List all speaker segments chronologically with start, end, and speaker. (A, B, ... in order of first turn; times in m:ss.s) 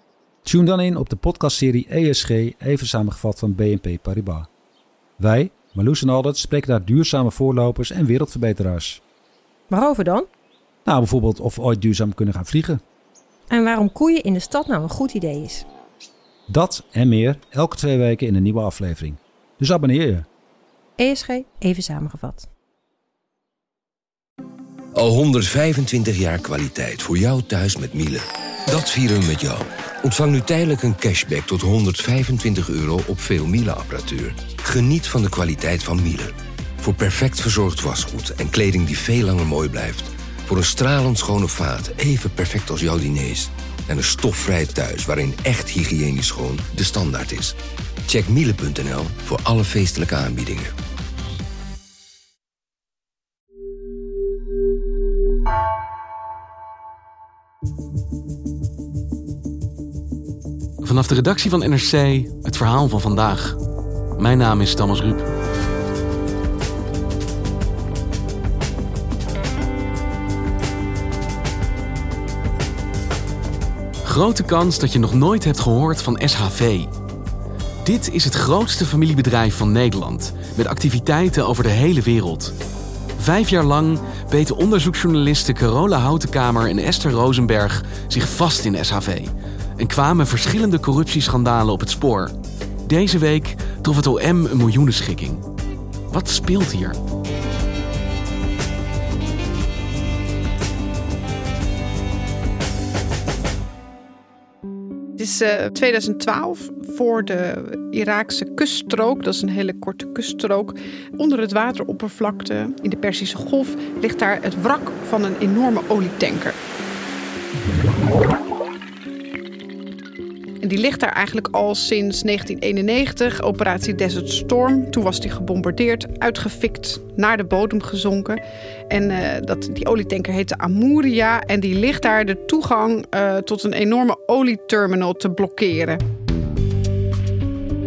0:00.4-0:04.5 A
0:05.2-0:09.0 A
0:09.7-0:10.3 B
0:10.8-0:12.8 A
0:13.5-0:15.6 B
0:16.5-0:20.3 A
0:21.0-0:22.5 B
0:24.9-0:50.7 C
1:00.8-1:03.6 D
1:04.2-1:05.3 D
1:14.0-1:16.9 D
1:17.8-1:22.5 D
1:23.2-1:32.3 D
1:32.8-1:35.4 D
1:36.1-1:37.0 D
1:45.2-1:56.6 E
2:00.6-2:16.0 E